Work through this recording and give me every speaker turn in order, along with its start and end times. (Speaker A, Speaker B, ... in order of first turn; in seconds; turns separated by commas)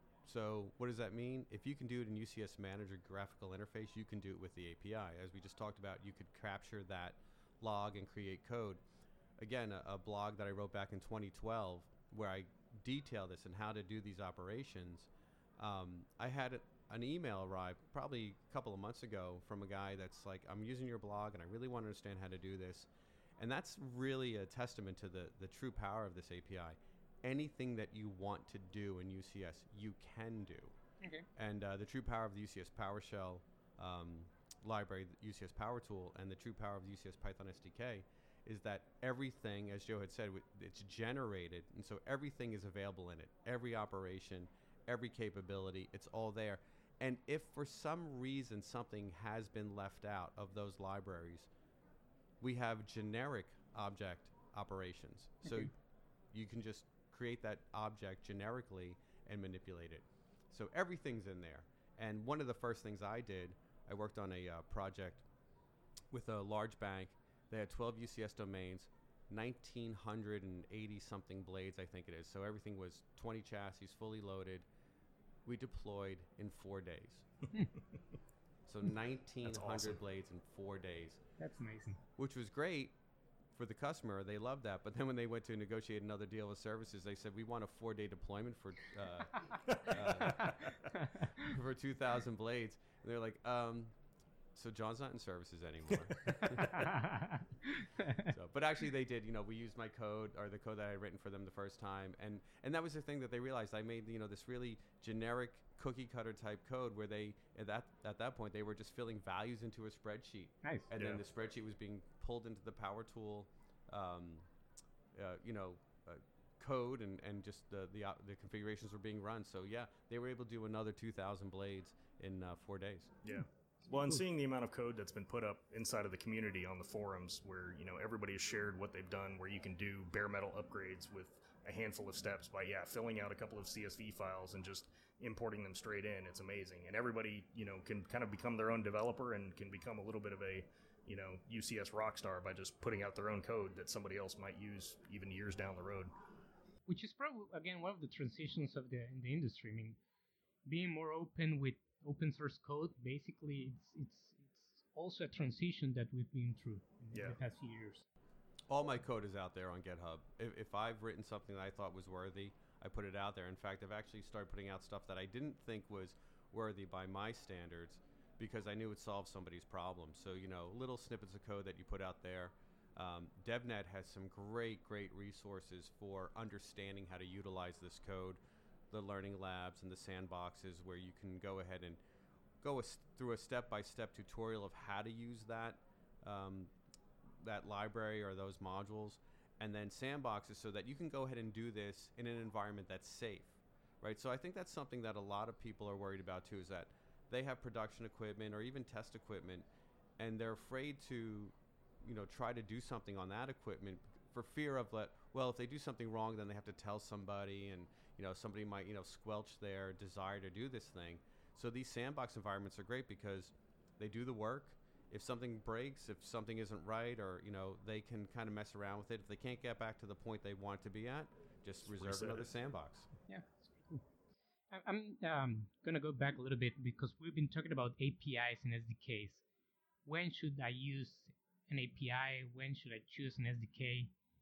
Speaker A: 0.2-8.8, Speaker A: 9.4-30.7, Speaker B: 31.0-31.3, Speaker A: 31.3-51.5, Speaker A: 52.4-55.7, Speaker B: 55.5-55.7, Speaker A: 56.3-65.2, Speaker A: 66.1-74.6, Speaker A: 75.5-77.2, Speaker A: 78.7-81.2, Speaker C: 79.4-80.0, Speaker B: 81.4-82.0, Speaker A: 82.2-82.9, Speaker A: 83.5-90.5, Speaker B: 90.6-91.3, Speaker A: 91.4-93.9, Speaker A: 94.5-96.9, Speaker B: 96.6-98.3, Speaker A: 98.2-114.5, Speaker B: 110.6-110.9, Speaker C: 111.0-111.2, Speaker A: 115.1-123.1, Speaker C: 123.2-146.1, Speaker B: 146.9-150.0, Speaker B: 150.7-158.1, Speaker A: 158.7-178.4, Speaker A: 178.9-182.0, Speaker A: 182.6-186.7, Speaker A: 187.3-199.7, Speaker A: 200.2-223.1, Speaker C: 221.9-222.5, Speaker B: 223.3-224.1, Speaker B: 224.7-229.4, Speaker B: 230.0-234.1